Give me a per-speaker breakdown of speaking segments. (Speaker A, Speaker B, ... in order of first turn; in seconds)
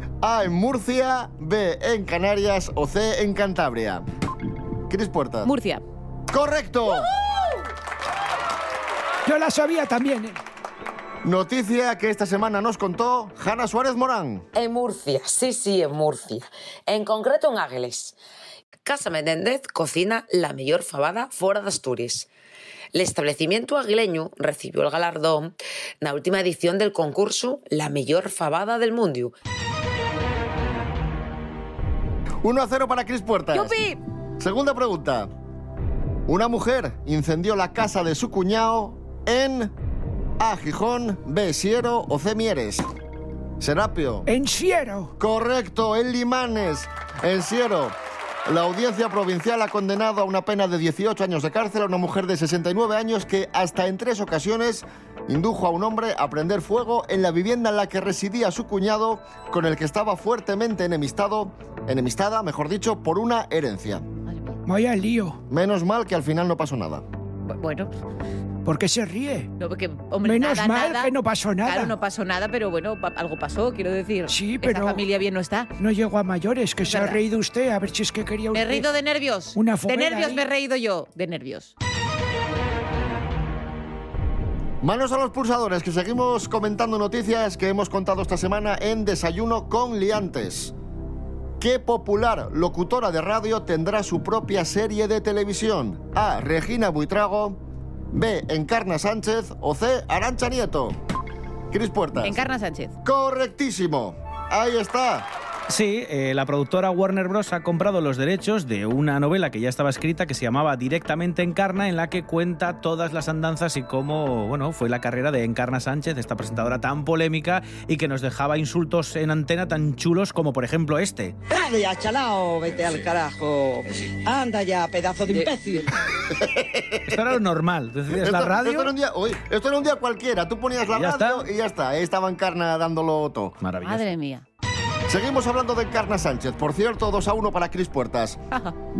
Speaker A: 0.2-4.0, 4.9-5.5, 6.3-7.1, 11.2-14.5, 32.4-33.8, 34.4-35.3, 36.3-39.7, 40.4-42.9, 43.6-44.3, 45.2-64.0, 65.5-67.0, 84.8-90.7, 91.6-97.6, 98.1-101.0, 101.7-102.4, 103.0-105.3, 126.3-127.2, 128.1-133.5, 135.1-138.4
Speaker B: 5.4-5.8, 33.5-34.0, 64.3-64.6, 67.4-67.9, 69.6-71.1, 71.6-75.7, 76.8-77.2, 78.5-81.7, 102.2-102.9, 133.8-134.4
Speaker C: 9.2-10.4, 44.2-45.1, 64.7-65.4, 68.6-69.5, 70.2-71.9, 74.3-75.0, 75.8-78.9, 79.5-80.4
Speaker D: 14.5-18.2, 18.8-22.3, 22.9-29.3
Speaker E: 105.7-121.3, 127.0-128.9, 130.9-131.4, 133.6-134.1
Speaker F: 121.5-125.9